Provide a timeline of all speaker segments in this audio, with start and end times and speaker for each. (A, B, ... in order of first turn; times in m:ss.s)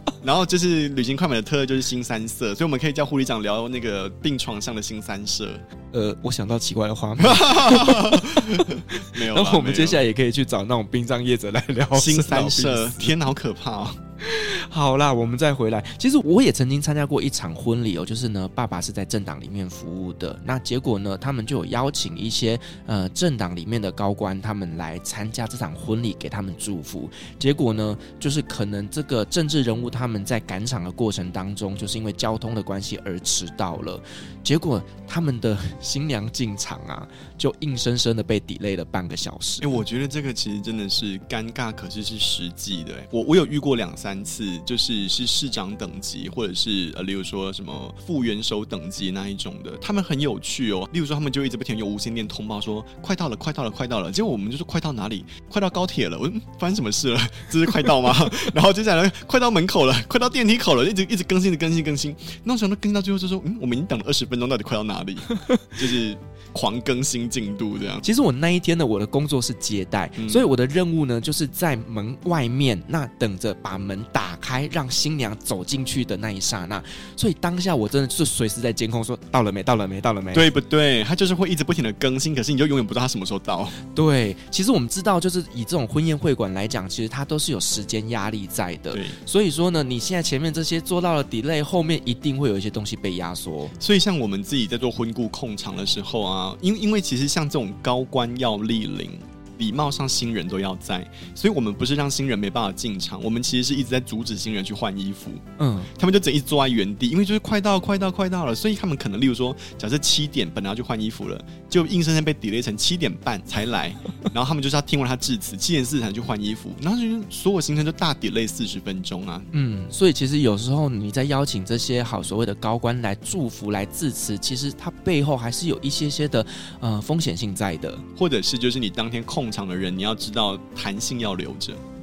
0:00.2-0:05.6 A
0:05.9-0:13.1 B
0:07.2-0:10.0 A
0:11.9-0:14.0 A
0:14.2-0:39.8 B
0:39.6-1:08.0 A
1:08.0-1:20.5 B
1:10.2-1:10.5 A
1:20.3-1:23.8 A
1:23.9-1:33.7 B
1:28.9-1:29.2 A
1:33.8-1:59.5 A
1:45.6-1:45.9 B
1:59.5-2:08.0 B
2:08.2-2:11.8 A